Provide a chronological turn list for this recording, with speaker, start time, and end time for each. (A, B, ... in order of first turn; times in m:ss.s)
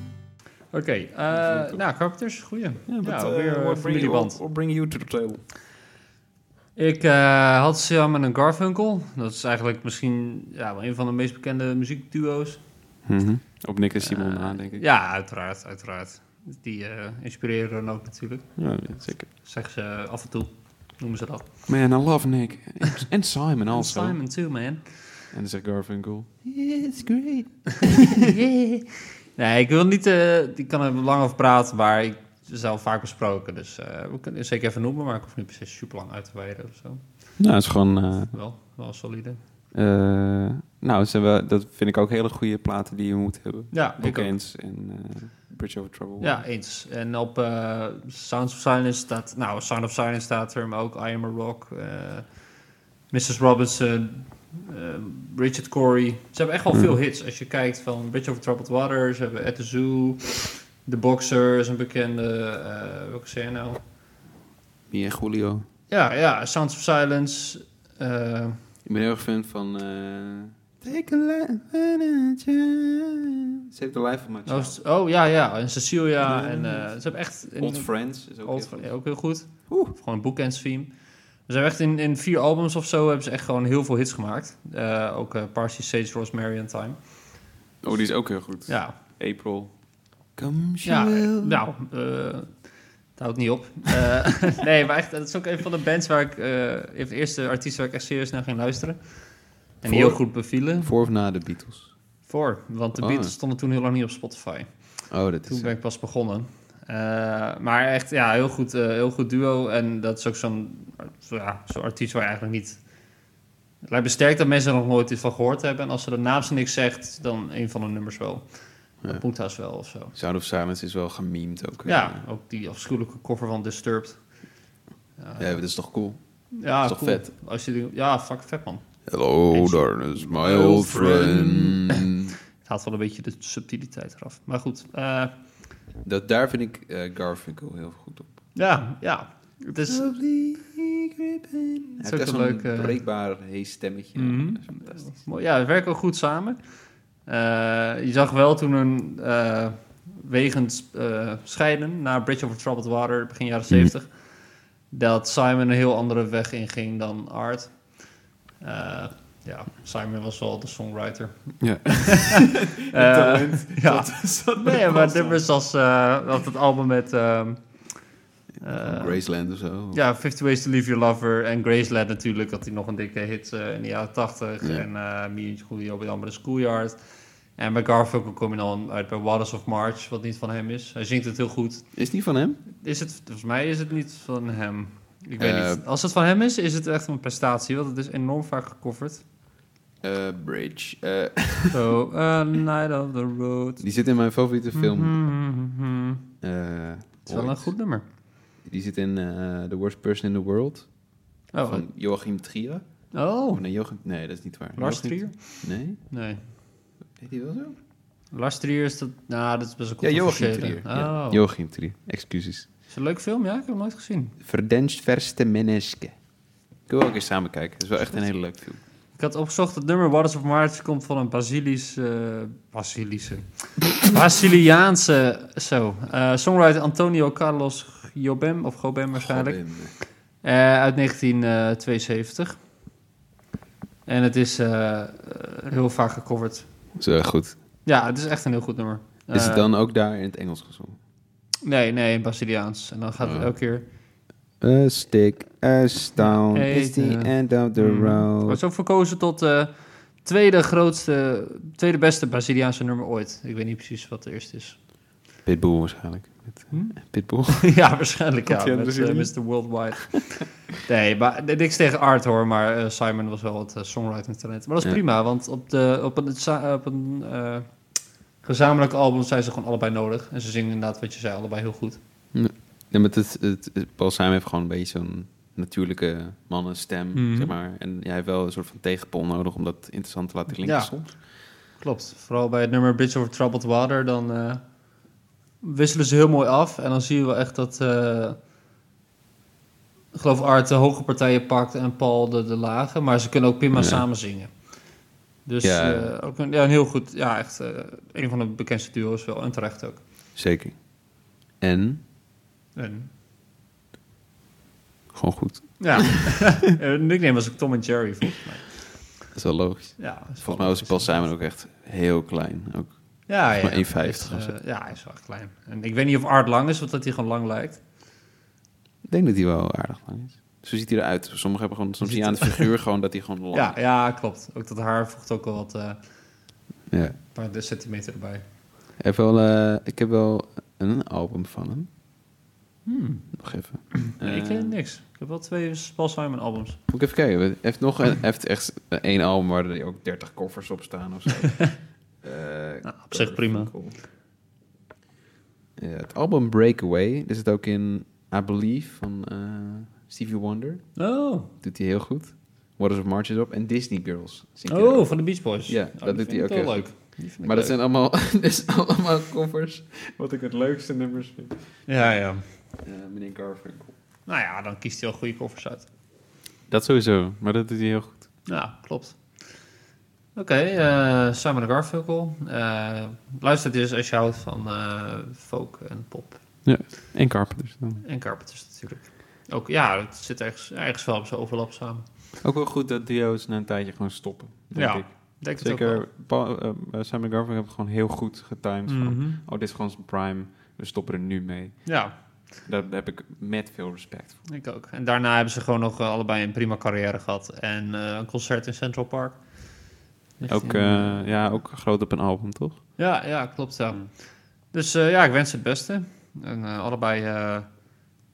0:00.7-0:04.4 A
0:01.3-0:01.8 B
0:02.9-0:05.4 B
0:06.8-0:12.6 A
0:13.0-0:14.8 B
0:14.0-0:21.7 A
0:18.6-0:19.3 B
0:21.7-0:24.2 B
0:23.7-0:25.3 A
0:25.3-0:28.2 B
0:28.1-0:37.4 A
0:37.4-0:38.3 B
0:38.3-0:39.4 A
0:39.7-0:46.4 B
0:43.7-0:44.4 A
0:46.2-0:52.6 A
0:53.1-1:03.8 A
1:04.9-1:05.6 B
1:05.9-1:08.6 A
1:08.8-1:14.8 B
1:14.4-1:27.4 A
1:16.2-1:19.9 B
1:27.8-1:31.6 B
1:28.7-1:29.0 A
1:30.8-1:40.9 A
1:39.8-1:42.0 B
1:42.3-1:52.9 A
1:43.0-1:43.4 B
1:45.1-1:45.7 B
1:53.8-2:00.1 A
2:00.1-2:02.2 B
2:01.9-2:04.4 A
2:05.2-2:05.6 A
2:05.4-2:07.3 B
2:06.5-2:15.6 A
2:09.1-2:12.4 B
2:16.0-2:18.4 B
2:18.6-2:20.1 A
2:19.9-2:25.1 B
2:22.0-2:23.0 A
2:24.2-2:57.0 A
2:41.6-2:45.4 B
2:48.6-2:50.0 B
2:57.6-3:02.0 A
3:01.9-3:02.6 B
3:02.7-3:09.2 A
3:05.4-3:05.8 B
3:10.0-3:11.8 B
3:11.7-3:14.0 A
3:13.8-3:15.2 B
3:14.7-3:16.3 A
3:16.4-3:17.8 B
3:17.3-3:18.0 A
3:18.6-3:26.0 B
3:21.5-3:21.9 A
3:23.1-3:23.6 A
3:24.8-3:26.4 A
3:27.1-3:27.8 B
3:28.3-3:31.4 A
3:30.0-3:32.7 B
3:32.9-3:34.4 A
3:34.4-3:36.2 B
3:36.9-3:38.8 B
3:39.2-3:52.6 A
3:49.2-3:49.9 B
3:54.1-3:56.9 A
3:57.0-3:57.6 B
3:57.8-3:59.7 A
3:59.3-4:01.0 B
4:01.6-4:03.9 A
4:03.2-4:03.9 B
4:04.6-4:08.6 B
4:06.2-4:14.8 A
4:15.4-4:17.9 B
4:16.7-4:32.0 A
4:18.4-4:19.9 B
4:32.3-4:41.1 B
4:37.1-4:37.5 A
4:40.6-4:45.0 A
4:45.6-4:48.4 A
4:50.1-5:00.0 A
4:53.7-4:54.0 B
4:55.6-4:56.1 B
5:00.4-5:02.0 B
5:02.8-5:03.1 A
5:05.1-5:06.4 B
5:05.8-5:09.3 A
5:09.3-5:14.6 B
5:10.0-5:11.3 A
5:13.3-5:17.8 A
5:19.0-5:23.8 B
5:22.0-5:22.7 A
5:23.5-5:26.2 A
5:26.9-5:27.2 B
5:27.3-5:28.4 A
5:29.0-5:31.9 B
5:32.8-5:33.4 A
5:33.3-5:34.8 B
5:34.1-5:36.8 A
5:36.9-5:44.0 B
5:42.9-5:43.7 A
5:45.8-6:01.9 B
5:51.0-5:51.5 A
5:54.7-5:57.8 A
6:01.9-6:02.4 A
6:02.8-6:03.9 B
6:04.3-6:05.9 A
6:06.7-6:08.3 B
6:08.4-6:09.6 A
6:10.4-6:16.6 A
6:16.6-6:18.0 B
6:18.0-6:22.0 A
6:22.4-6:34.4 B
6:24.7-6:26.1 A
6:28.9-6:29.4 A
6:31.9-6:32.2 A
6:34.5-6:41.3 A
6:40.4-6:43.0 B
6:43.0-6:48.1 A